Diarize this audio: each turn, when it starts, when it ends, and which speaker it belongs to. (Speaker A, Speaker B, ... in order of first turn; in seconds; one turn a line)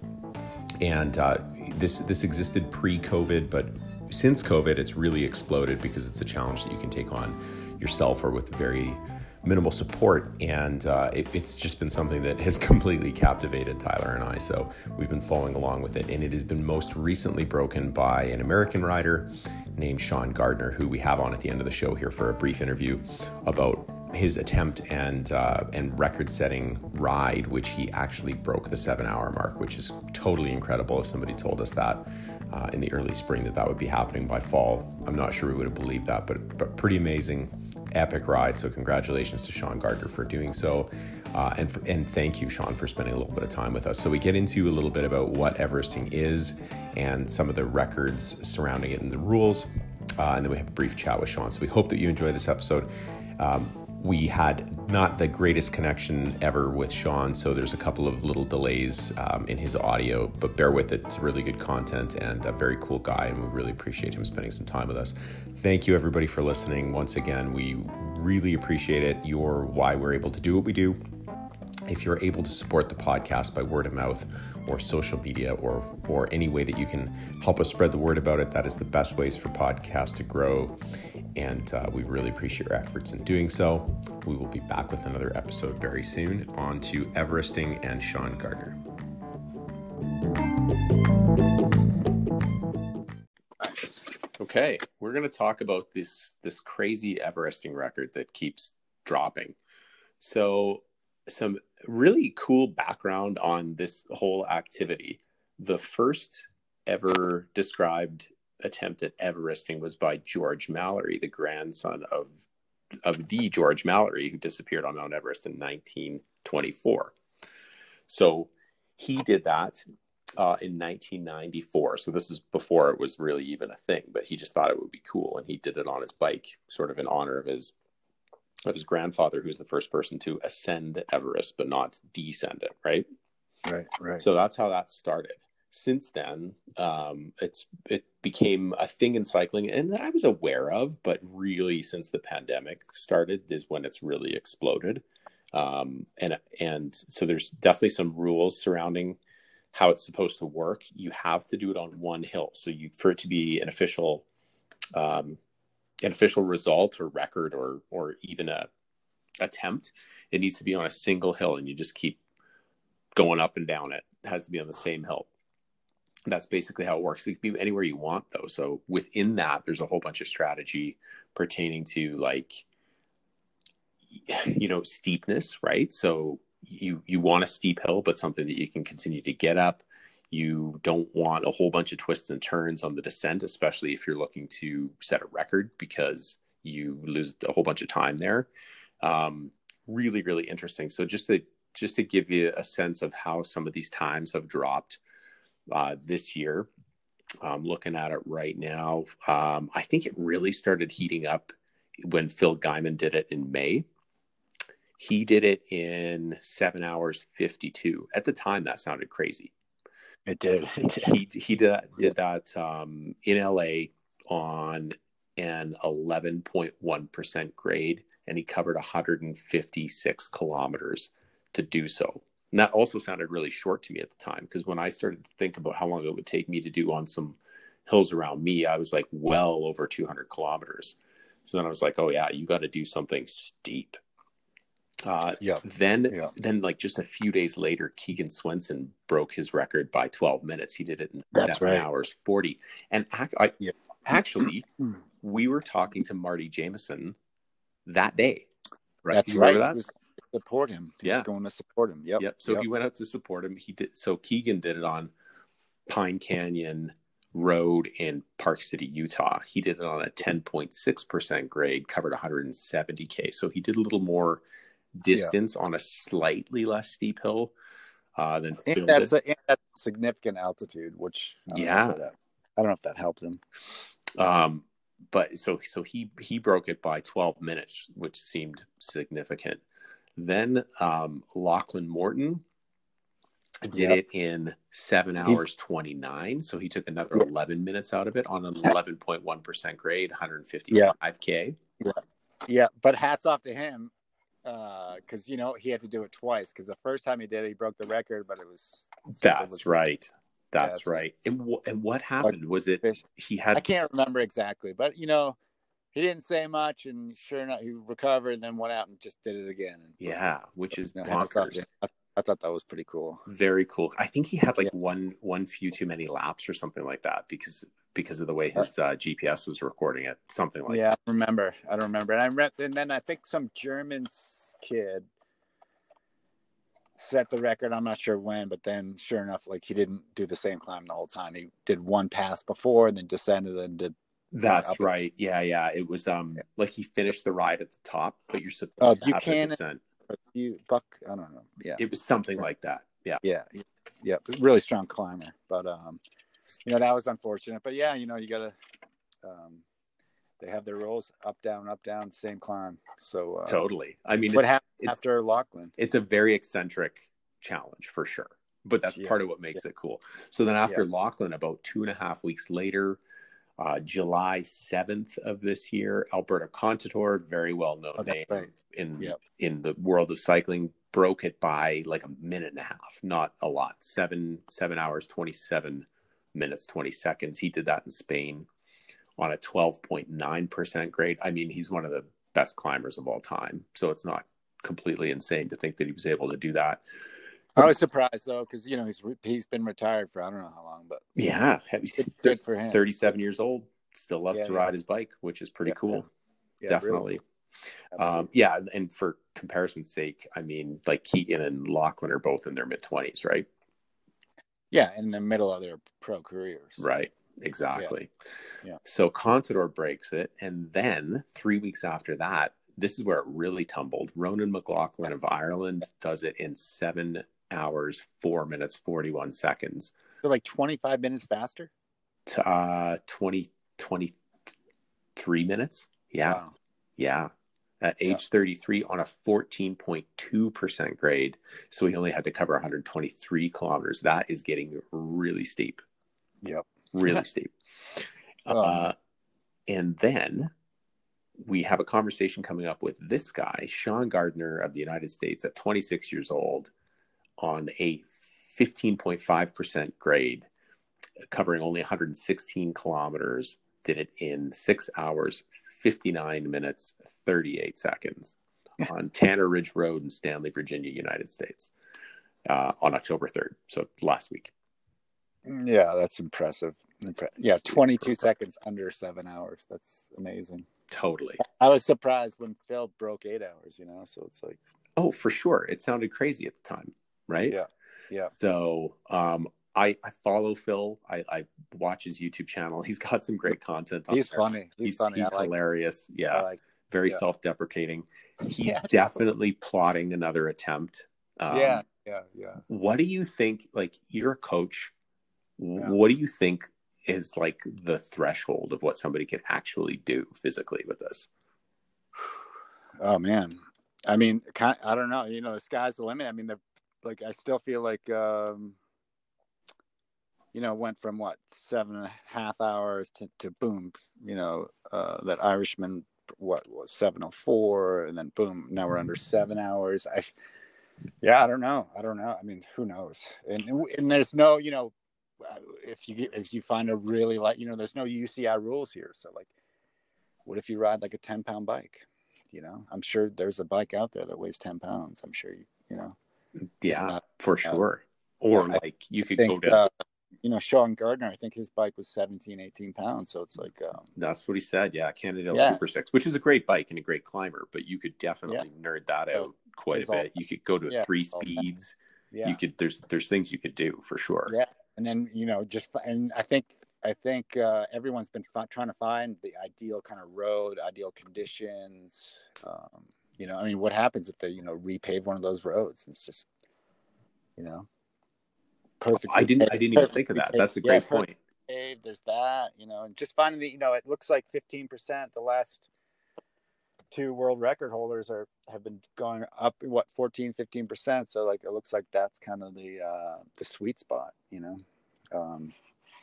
Speaker A: 0.8-71.0
Speaker A: 71.9-80.8
Speaker A: 81.4-88.8
Speaker B: 93.6-94.0
Speaker A: 94.4-99.5
Speaker A: 100.2-112.4
Speaker A: 113.0-117.2
Speaker A: 118.1-119.8
Speaker A: 120.4-127.7
Speaker A: 128.7-133.1
Speaker B: 133.7-134.2
Speaker A: 134.2-149.2
Speaker A: 149.7-154.2
Speaker A: 154.9-155.4
Speaker A: 156.0-158.7
Speaker A: 159.4-162.2
Speaker A: 163.2-165.3
Speaker A: 166.3-172.7
Speaker A: 174.1-188.5
Speaker A: 189.0-195.0
Speaker A: 195.7-196.7
Speaker A: 197.4-203.9
Speaker A: 205.0-209.5
Speaker B: 210.3-211.2
Speaker A: 210.8-234.0
Speaker A: 235.0-244.7
Speaker B: 235.4-236.3
Speaker B: 241.3-241.9
Speaker A: 245.2-247.2
Speaker A: 247.9-248.5
Speaker A: 249.0-249.8
Speaker B: 249.1-252.7
Speaker A: 252.2-255.1
Speaker A: 255.9-264.4
Speaker A: 265.0-267.5
Speaker A: 268.2-269.1
Speaker B: 268.7-273.4
Speaker A: 271.5-272.0
Speaker A: 274.2-279.6
Speaker A: 280.2-282.4
Speaker A: 283.6-291.6
Speaker B: 283.7-284.0
Speaker B: 291.8-293.9
Speaker B: 294.4-299.8
Speaker A: 299.2-303.6
Speaker B: 300.6-300.9
Speaker B: 302.2-303.0
Speaker B: 303.5-305.4
Speaker B: 305.9-310.2
Speaker A: 310.0-311.6
Speaker B: 311.0-313.2
Speaker A: 313.3-320.9
Speaker B: 320.7-325.1
Speaker B: 327.0-334.9
Speaker A: 334.3-339.8
Speaker B: 338.8-339.6
Speaker B: 340.1-341.8
Speaker A: 341.8-343.2
Speaker B: 343.2-346.0
Speaker B: 346.6-348.6
Speaker B: 349.2-349.6
Speaker B: 350.4-353.6
Speaker A: 353.5-354.9
Speaker B: 354.3-355.7
Speaker A: 355.8-363.0
Speaker A: 363.6-378.5
Speaker B: 368.0-368.5
Speaker A: 379.2-386.8
Speaker B: 387.6-391.0
Speaker A: 391.2-396.1
Speaker B: 392.0-392.8
Speaker B: 394.3-394.7
Speaker B: 395.7-396.1
Speaker B: 396.6-397.2
Speaker A: 396.7-397.2
Speaker B: 397.9-398.3
Speaker A: 398.0-403.5
Speaker B: 404.7-406.8
Speaker A: 406.8-408.1
Speaker A: 408.8-419.9
Speaker B: 420.2-421.7
Speaker A: 422.3-424.2
Speaker A: 425.2-426.4
Speaker A: 427.0-427.3
Speaker A: 427.8-435.8
Speaker B: 436.4-437.2
Speaker A: 436.9-438.9
Speaker B: 438.5-438.9
Speaker A: 439.7-440.5
Speaker A: 441.4-446.7
Speaker A: 447.4-450.5
Speaker A: 451.3-461.7
Speaker A: 462.5-464.5
Speaker B: 465.4-470.7
Speaker A: 470.9-471.4
Speaker B: 471.4-474.6
Speaker A: 475.0-477.6
Speaker B: 477.5-478.3
Speaker A: 478.4-491.8
Speaker B: 484.1-485.5
Speaker B: 486.3-487.2
Speaker B: 488.5-488.9
Speaker B: 491.5-492.6
Speaker A: 492.7-494.9
Speaker A: 495.6-501.3
Speaker B: 503.0-508.8
Speaker B: 510.5-520.3
Speaker B: 521.2-529.5
Speaker B: 530.5-536.2
Speaker A: 536.8-539.8
Speaker B: 536.9-537.8
Speaker B: 539.4-539.9
Speaker B: 540.4-544.1
Speaker A: 544.2-554.5
Speaker B: 545.5-545.8
Speaker B: 549.3-550.3
Speaker B: 550.9-551.6
Speaker B: 552.3-552.6
Speaker B: 554.5-566.5
Speaker B: 567.6-567.9
Speaker B: 569.0-575.9
Speaker A: 569.1-571.4
Speaker B: 577.1-584.8
Speaker B: 585.3-585.7